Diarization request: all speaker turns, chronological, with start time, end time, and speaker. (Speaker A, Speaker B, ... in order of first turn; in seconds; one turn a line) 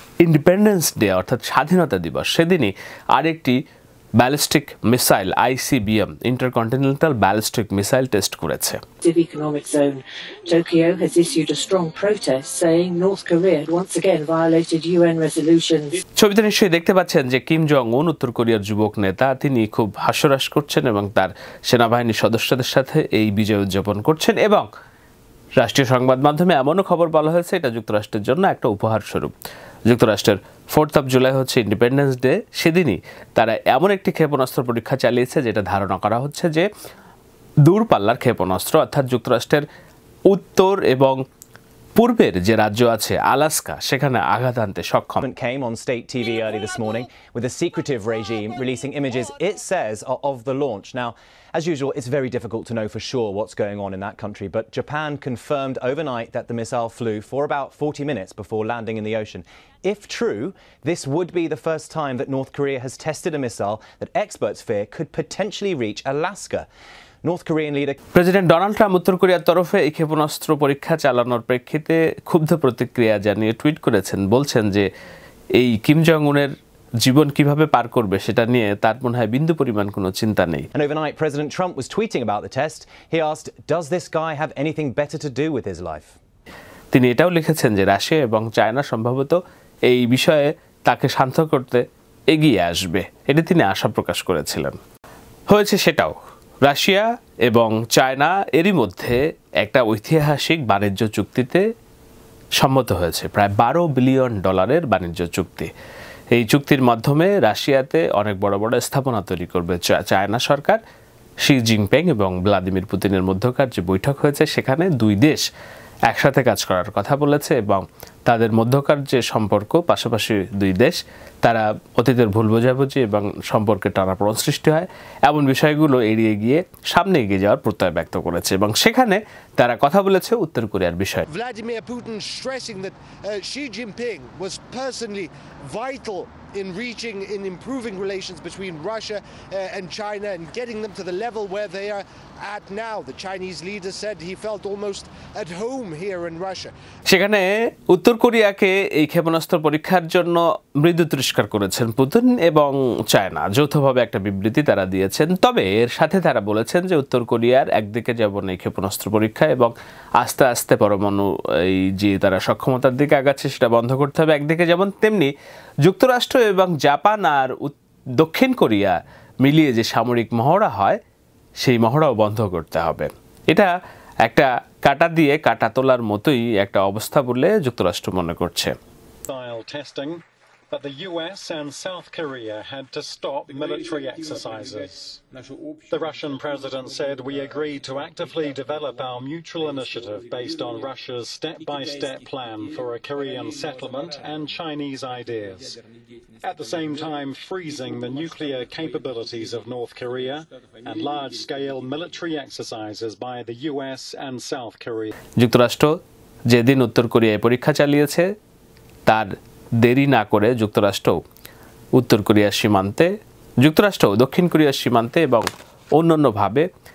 Speaker A: 0.2-3.6
Speaker A: 4.2-8.8
Speaker B: 9.0-16.0
Speaker A: 16.2-24.7
Speaker A: 25.6-29.3
Speaker A: 29.9-36.6
Speaker A: 37.7-39.6
Speaker A: 40.3-41.2
Speaker A: 42.0-45.2
Speaker C: 45.2-66.7
Speaker C: 67.2-68.0
Speaker A: 68.1-74.9
Speaker A: 75.6-76.5
Speaker A: 77.0-80.7
Speaker C: 80.7-86.2
Speaker A: 86.9-94.8
Speaker A: 95.5-96.1
Speaker A: 96.6-101.6
Speaker A: 102.6-105.7
Speaker A: 106.3-110.8
Speaker A: 111.4-115.4
Speaker A: 116.1-131.3
Speaker D: 131.3-146.7
Speaker A: 147.1-165.3
Speaker A: 165.8-171.0
Speaker A: 171.6-173.7
Speaker A: 174.2-178.7
Speaker E: 179.3-185.2
Speaker E: 185.9-195.8
Speaker E: 196.4-205.1
Speaker A: 205.4-205.9
Speaker A: 206.5-208.3
Speaker A: 209.1-211.1
Speaker A: 212.0-213.1
Speaker A: 213.6-216.6